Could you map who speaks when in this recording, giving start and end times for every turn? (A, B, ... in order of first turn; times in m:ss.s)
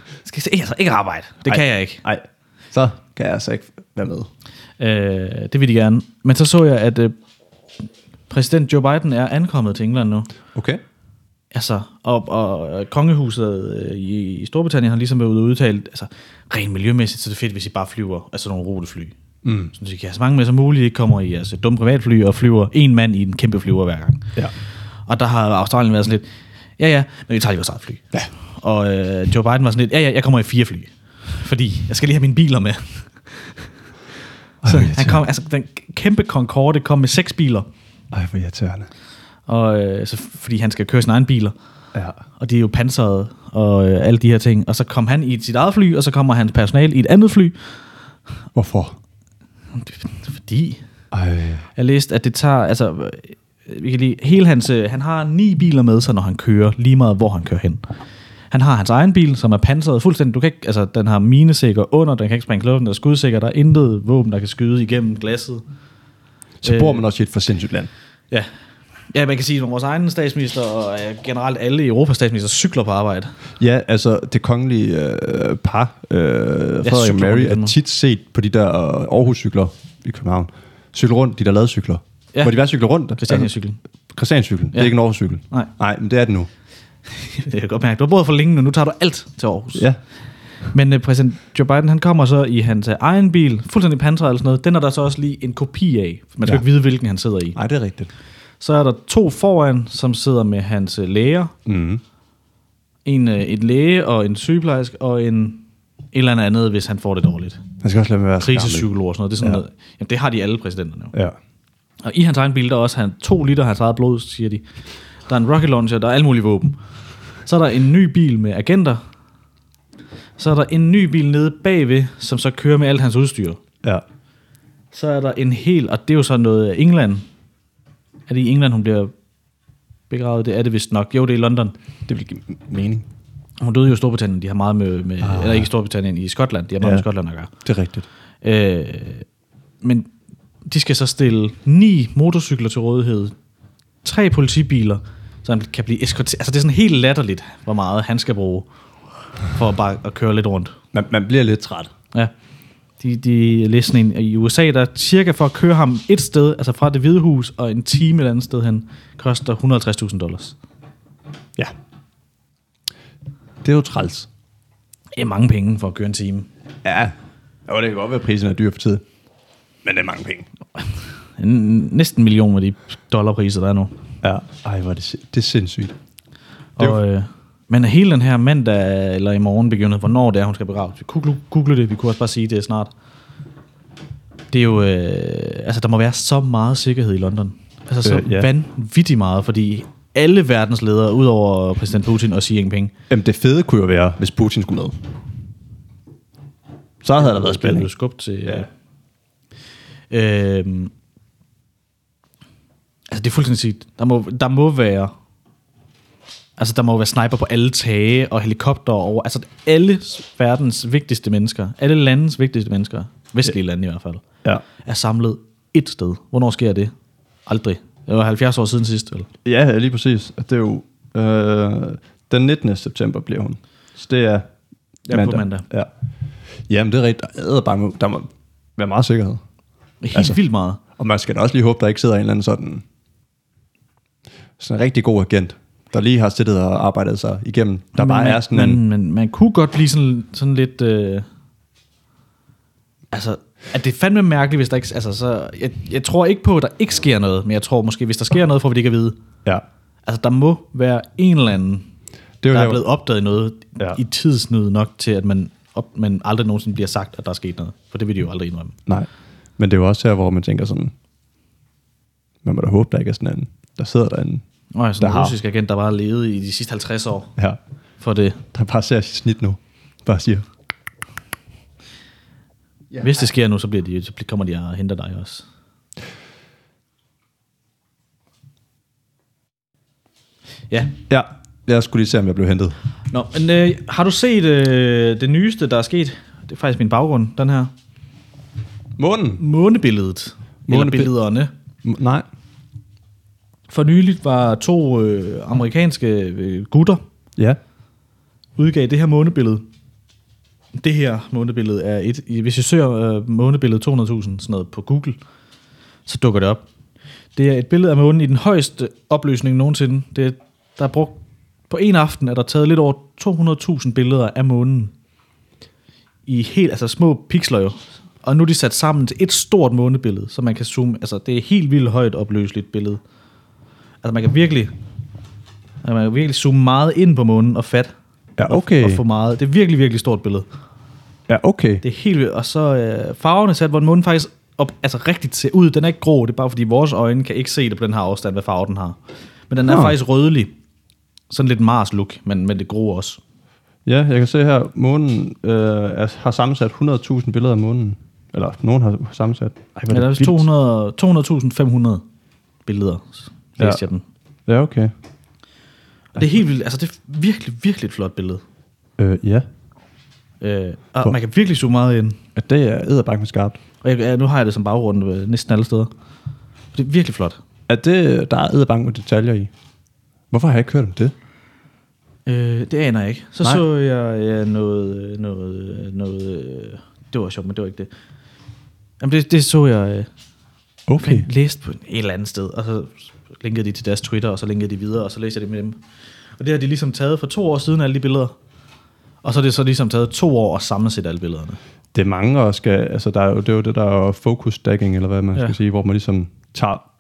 0:00.2-0:02.0 A
0:01.5-0:04.3 B
0:04.8-0:07.2 A
0:08.3-0:10.3 A
0:10.5-0:10.8 B
0:11.5-0:19.2 A
0:19.4-0:19.7 B
0:19.7-0:24.3 A
0:25.1-0:33.7 A
0:34.6-0:35.2 B
0:34.6-0:37.7 A
0:38.1-0:38.9 B
0:39.5-0:41.6 A
0:41.9-0:42.2 B
0:42.4-0:47.6 A
0:48.6-0:49.0 B
0:49.7-0:50.8 A
0:51.1-0:51.7 B
0:51.8-0:57.9 A
0:58.5-1:05.6 A
1:06.6-1:07.9 B
1:06.6-1:07.0 A
1:09.1-1:13.4 A
1:13.6-1:23.5 B
1:16.8-1:17.7 A
1:23.2-1:23.8 A
1:24.1-1:26.5 B
1:27.1-1:29.9 A
1:30.7-1:37.6 A
1:37.6-1:38.1 B
1:38.6-1:41.5 A
1:41.7-1:42.0 B
1:43.0-1:47.6 A
1:47.8-1:48.9 B
1:48.4-1:51.1 A
1:52.0-1:54.6 A
1:55.3-1:56.8 A
1:57.4-1:59.0 A
2:00.4-2:03.6 A
2:04.9-2:07.3 A
2:08.3-2:09.1 A
2:10.1-2:11.7 A
2:12.1-2:13.1 B
2:13.6-2:17.5 A
2:15.2-2:15.7 B
2:17.6-2:18.1 B
2:18.4-2:19.3 A
2:19.8-2:20.1 A
2:20.7-2:23.3 A
2:24.0-2:28.7 A
2:29.5-2:30.8 A
2:30.9-2:31.9 B
2:33.0-2:40.6 A
2:43.6-2:44.3 B
2:45.2-2:46.5 A
2:46.8-2:47.1 B
2:47.7-2:49.0 B
2:49.8-2:50.5 B
2:51.4-2:54.0 A
2:54.2-2:56.0 B
2:56.8-3:02.9 A
3:04.5-3:12.9 A
3:08.0-3:08.5 B
3:13.1-3:15.2 B
3:17.0-3:17.9 B
3:17.2-3:18.7 A
3:20.1-3:20.9 A
3:23.1-3:25.1 A
3:26.6-3:34.2 A
3:34.8-3:36.9 A
3:37.5-3:39.3 A
3:39.4-3:44.5 B
3:45.1-3:45.7 A
3:45.1-3:45.9 B
3:46.7-3:49.4 B
3:50.0-3:50.8 A
3:50.1-3:50.4 B
3:51.0-3:52.8 B
3:54.6-3:58.8 B
3:58.0-4:01.3 A
4:03.1-4:09.2 A
4:10.1-4:11.9 A
4:12.4-4:12.8 B
4:12.5-4:18.8 A
4:18.9-4:20.9 B
4:22.4-4:24.4 B
4:24.7-4:27.3 A
4:25.0-4:25.4 B
4:28.0-4:28.4 A
4:28.5-4:30.5 B
4:33.0-4:35.5 A
4:40.7-4:41.0 A
4:41.1-4:42.8 B
4:43.1-4:47.7 A
4:49.0-4:49.4 B
4:49.4-4:51.5 A
4:50.7-4:51.1 B
4:51.8-4:52.3 B
4:53.7-4:57.0 A
4:58.6-4:59.7 A
5:00.8-5:05.2 A
5:06.1-5:06.6 A
5:07.4-5:14.9 A
5:16.3-5:23.0 A
5:24.0-5:24.7 A
5:25.8-5:27.9 A
5:28.4-5:29.0 B
5:28.5-5:30.5 A
5:31.3-5:31.8 B
5:31.8-5:39.0 A
5:39.5-5:40.5 A
5:39.7-5:40.0 B
5:41.3-5:43.2 A
5:43.9-5:50.5 B
5:49.9-5:52.0 A
5:52.7-5:54.0 A
5:54.5-5:54.9 B
5:56.1-5:58.4 A
5:59.0-5:59.5 B
6:00.4-6:02.2 A
6:02.4-6:03.6 B
6:03.8-6:05.9 A
6:06.7-6:07.4 A
6:07.7-6:09.5 B
6:10.3-6:11.1 B
6:12.3-6:17.9 A
6:19.0-6:20.1 A
6:20.9-6:21.3 B
6:21.0-6:25.8 A
6:26.4-6:28.4 A
6:29.2-6:31.6 A
6:31.9-6:36.8 B